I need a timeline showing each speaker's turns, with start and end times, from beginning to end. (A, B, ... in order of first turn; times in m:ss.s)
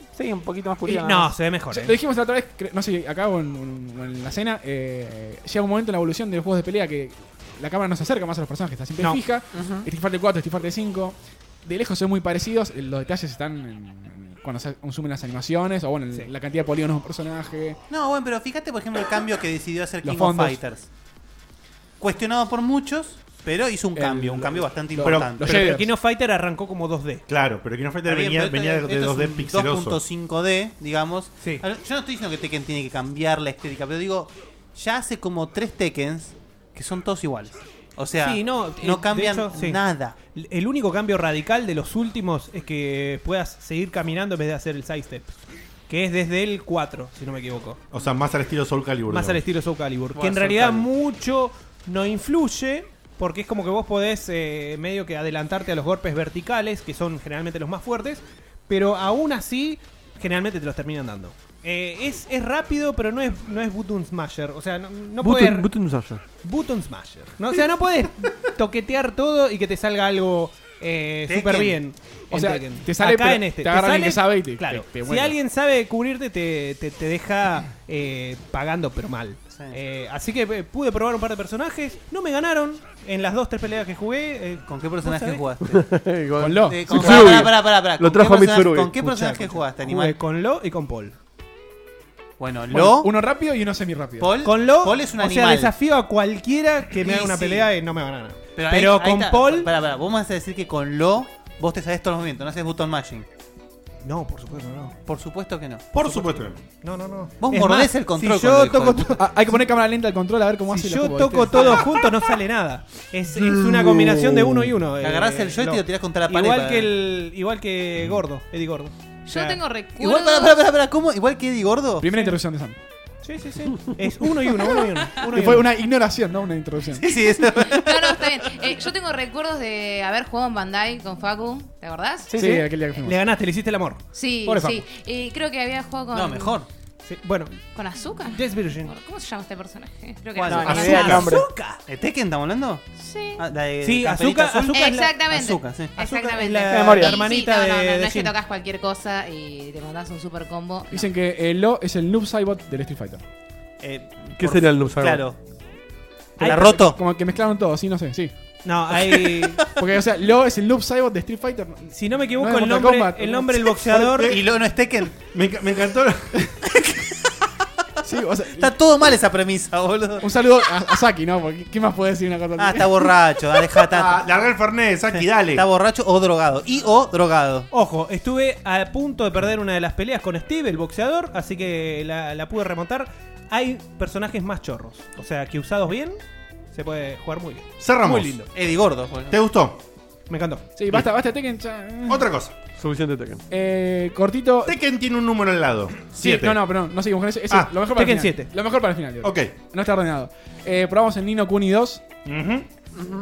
0:00.2-0:01.3 A
0:00.8-0:02.0 B
0:01.7-0:17.8 C
0:09.5-0:09.9 A
0:17.9-0:20.9 D
0:20.0-0:20.6 C
0:22.0-0:25.7 D
0:23.9-0:25.9 C
0:25.0-0:25.4 E
0:25.4-0:27.2 B
0:27.3-0:30.0 E
0:28.0-0:40.2 D
0:38.2-0:47.8 B
0:47.9-0:49.4 E
0:49.1-1:05.7 B
0:50.2-0:50.8 D
1:05.2-1:06.2 F
1:06.4-1:25.4 B
1:11.3-1:11.8 D
1:12.3-1:15.4 C
1:19.5-1:19.8 D
1:24.6-1:25.9 D
1:25.7-1:29.0 F
1:26.4-1:27.4 C
1:26.6-1:30.2 D
1:28.9-1:31.2 B
1:32.4-1:33.1 D
1:32.7-1:34.4 C
1:34.2-1:35.7 D
1:34.4-1:39.7 B
1:36.9-1:37.7 D
1:38.5-1:43.3 D
1:44.0-1:45.0 B
1:45.0-1:46.0 D
1:45.9-1:46.6 E
1:46.0-1:49.2 B
1:47.4-1:49.2 D
1:49.2-1:51.8 C
1:50.7-1:59.6 B
1:51.6-1:51.9 D
1:54.9-1:56.9 D
1:59.3-2:00.6 G
1:59.9-2:02.1 D
2:02.0-2:02.8 C
2:03.2-2:05.7 B
2:05.2-2:07.1 C
2:06.9-2:08.8 D
2:07.6-2:12.3 G
2:12.3-2:12.7 A
2:12.3-2:13.2 C
2:13.0-2:14.9 B
2:14.1-2:16.6 G
2:16.1-2:16.7 D
2:17.0-2:17.7 B
2:17.7-2:21.2 G
2:18.3-2:19.0 B
2:20.4-2:26.0 D
2:20.5-2:21.8 B
2:20.6-2:21.3 E
2:20.7-2:21.5 A
2:23.0-2:23.4 G
2:23.8-2:25.2 B
2:24.7-2:31.1 G
2:26.0-2:28.4 B
2:26.7-2:27.2 A
2:26.8-2:27.2 D
2:30.9-2:33.2 C
2:33.8-2:35.4 D
2:34.4-2:35.2 F
2:36.4-2:36.9 B
2:36.4-2:37.0 D
2:36.4-2:38.3 C
2:38.6-2:39.6 B
2:39.0-2:39.6 D
2:39.8-2:43.7 C
2:41.9-2:44.4 B
2:44.2-2:44.5 E
2:44.2-2:45.2 D
2:45.2-2:46.5 E
2:48.0-2:48.8 C
2:48.5-2:50.3 D
2:50.2-2:53.2 C
2:52.6-2:54.3 D
2:53.8-2:55.7 E
2:55.1-2:57.7 D
2:57.7-3:06.2 B
3:06.7-3:08.5 B
3:07.8-3:08.5 E
3:08.5-3:09.4 D
3:09.3-3:09.8 E
3:10.3-3:10.6 B
3:10.8-3:12.3 C
3:12.1-3:12.5 E
3:12.8-3:13.4 F
3:13.5-3:14.8 C
3:14.7-3:16.7 E
3:16.2-3:22.0 C
3:17.9-3:18.5 B
3:19.2-3:19.5 E
3:22.2-3:22.7 E